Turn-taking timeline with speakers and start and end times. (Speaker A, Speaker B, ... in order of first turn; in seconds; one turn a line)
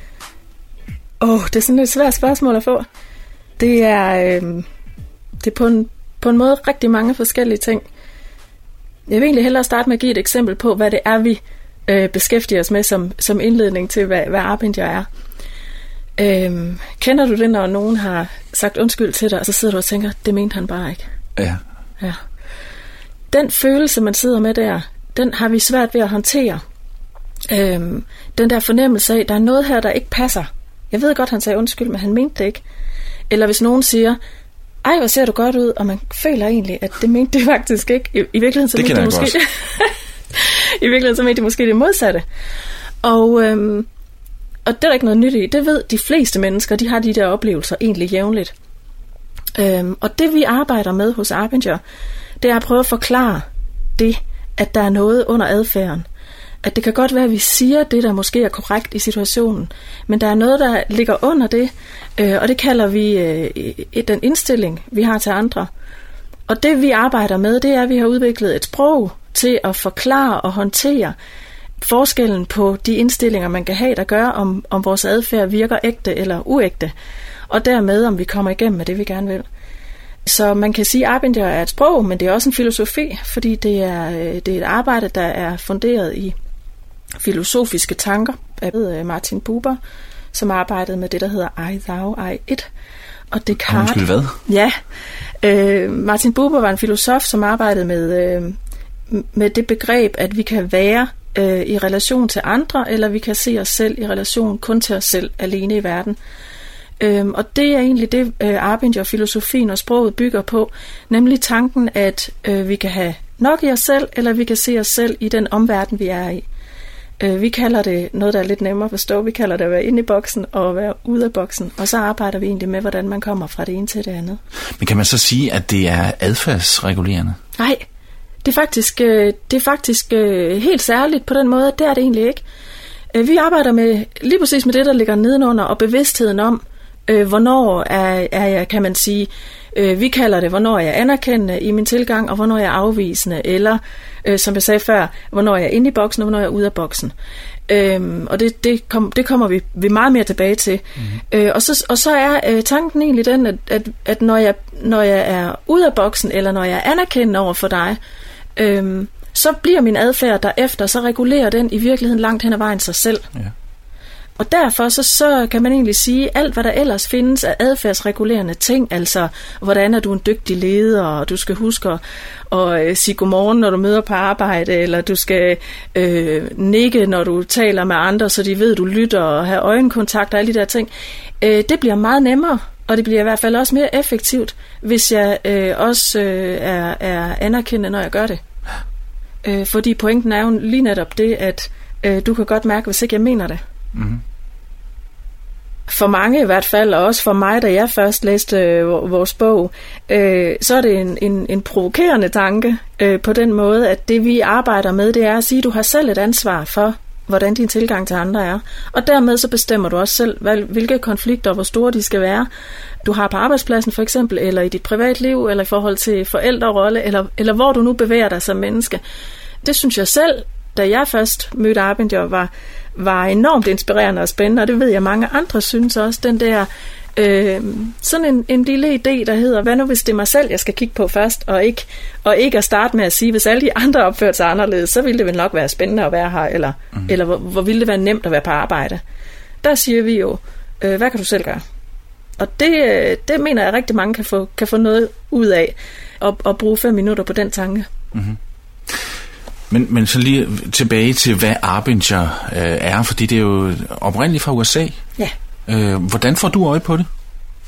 Speaker A: 1.2-2.9
Speaker A: 3.6-4.7
Speaker A: 5.4-7.8
Speaker A: 9.1-15.1
Speaker A: 16.2-21.0
Speaker A: 23.3-26.6
Speaker A: 27.5-32.6
Speaker A: 33.3-34.2
Speaker A: 34.8-42.2
Speaker B: 38.8-39.4
Speaker A: 43.0-43.9
Speaker A: 44.7-48.5
Speaker A: 49.5-51.8
Speaker A: 52.4-53.4
Speaker A: 54.0-56.1
Speaker A: 56.6-65.7
Speaker A: 66.5-71.2
Speaker A: 71.8-76.9
Speaker A: 77.5-79.5
Speaker A: 80.3-86.3
Speaker A: 87.2-89.8
Speaker A: 90.3-92.7
Speaker A: 93.3-94.7
Speaker B: 93.7-94.4
Speaker A: 95.4-98.6
Speaker A: 99.1-106.2
Speaker A: 107.0-116.5
Speaker A: 117.2-124.4
Speaker B: 124.8-127.4
Speaker A: 127.6-127.8
Speaker A: 128.4-132.4
Speaker A: 133.1-147.1
Speaker A: 147.7-158.0
Speaker A: 158.6-163.3
Speaker A: 164.4-188.4
Speaker A: 189.4-193.6
Speaker B: 193.9-194.2
Speaker A: 195.9-212.5
Speaker A: 213.0-219.0
Speaker A: 219.6-239.0
Speaker A: 239.6-241.6
Speaker A: 242.4-247.9
Speaker B: 249.7-255.0
Speaker B: 255.7-257.1